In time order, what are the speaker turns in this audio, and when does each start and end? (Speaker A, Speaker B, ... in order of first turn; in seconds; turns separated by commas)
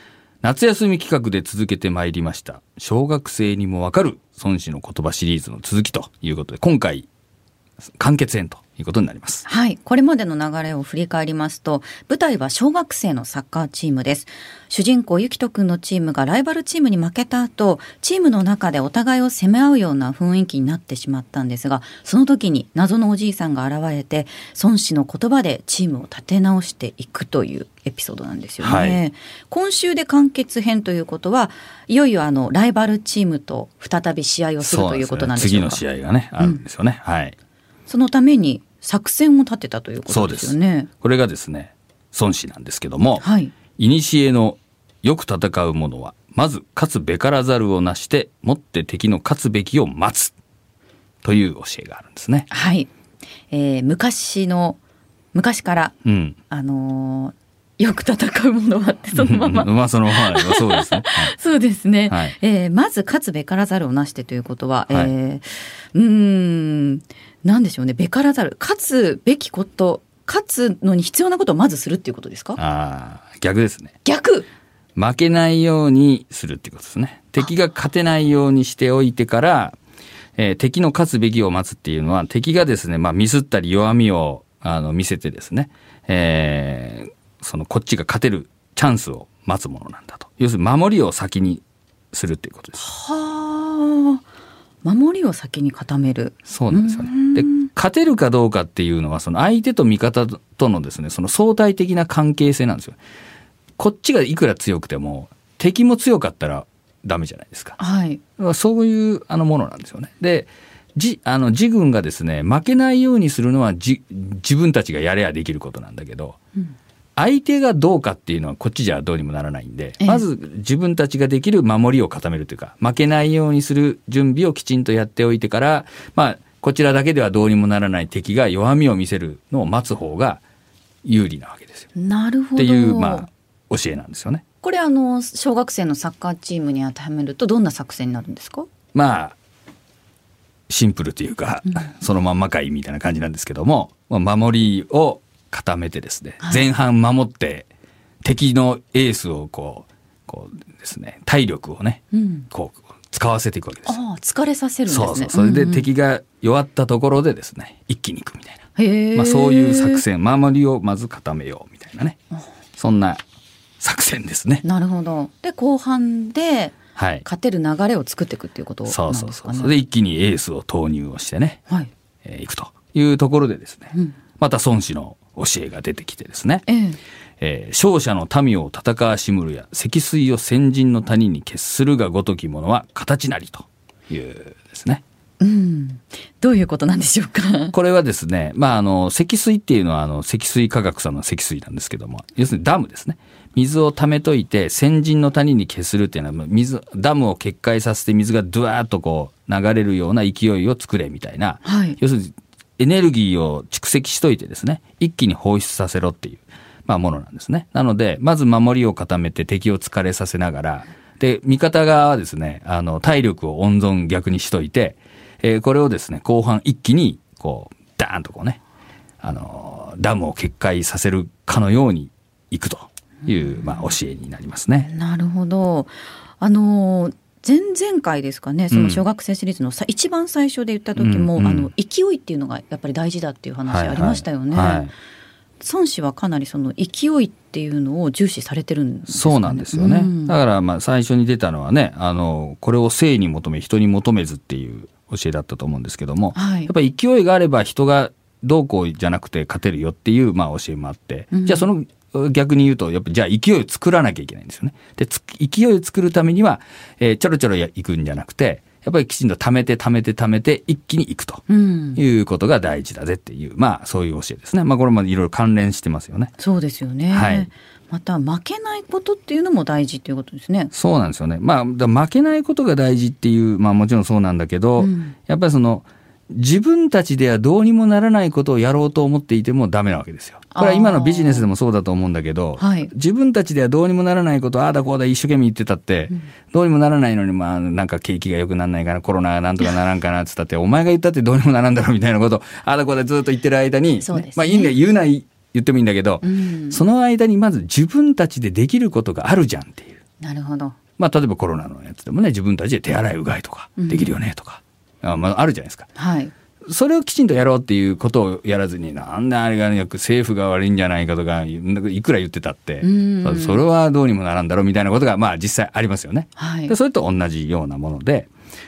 Speaker A: 0.4-7.1, Speaker A: 7.9-9.4, Speaker B: 9.4-35.8, Speaker A: 28.6-29.0, Speaker A: 34.6-37.4, Speaker B: 37.9-40.9, Speaker A: 40.1-50.3, Speaker B: 43.2-43.5, Speaker A: 51.2-52.5, Speaker B: 52.5-52.9, Speaker B: 53.5-54.8, Speaker B: 55.3-56.0, Speaker A: 56.0-56.4, Speaker B: 56.5-72.6, Speaker A: 59.1-61.3, Speaker A: 62.1-62.4, Speaker A: 72.6-73.9, Speaker B: 74.0-74.5, Speaker A: 75.0-79.8, Speaker A: 80.4-92.8, Speaker B: 92.8-94.2, Speaker B: 94.8-97.7, Speaker A: 96.5-103.0, Speaker A: 103.8-107.8, Speaker B: 107.8-108.2, Speaker A: 108.4-116.4, Speaker A: 117.2-130.4, Speaker A: 131.0-131.9, Speaker B: 131.9-133.3, Speaker A: 132.6-134.4, Speaker B: 134.6-138.7, Speaker A: 138.9-139.3, Speaker A: 140.7-147.7, Speaker B: 146.4-146.7, Speaker A: 148.2-153.9, Speaker B: 152.1-152.5, Speaker B: 153.8-155.9, Speaker A: 154.9-158.6, Speaker B: 158.8-160.0, Speaker A: 159.1-162.2, Speaker A: 162.8-163.2, Speaker A: 163.8-164.6, Speaker B: 164.6-169.7, Speaker A: 166.9-167.2, Speaker A: 168.8-171.6, Speaker A: 172.2-176.7, Speaker B: 176.7-177.0, Speaker A: 177.4-185.0, Speaker B: 185.4-187.7, Speaker A: 187.7-218.6, Speaker B: 201.6-202.0, Speaker A: 219.2-224.9, Speaker B: 223.2-223.9, Speaker B: 224.8-234.9, Speaker A: 228.7-229.0, Speaker A: 230.9-231.7, Speaker A: 233.7-234.9, Speaker B: 235.6-240.3, Speaker A: 239.1-261.4, Speaker B: 246.3-246.7, Speaker B: 251.3-251.7, Speaker B: 261.5-262.0, Speaker A: 261.9-266.3, Speaker B: 266.4-270.7, Speaker A: 267.1-267.5, Speaker A: 270.7-300.0, Speaker B: 274.8-275.1, Speaker B: 280.5-281.5, Speaker B: 282.6-282.9, Speaker B: 294.0-294.7, Speaker B: 296.2-296.8, Speaker B: 300.2-300.8, Speaker A: 301.0-305.9, Speaker B: 303.8-304.1, Speaker B: 305.9-306.3, Speaker A: 306.6-318.3, Speaker B: 312.8-313.6, Speaker B: 316.4-316.7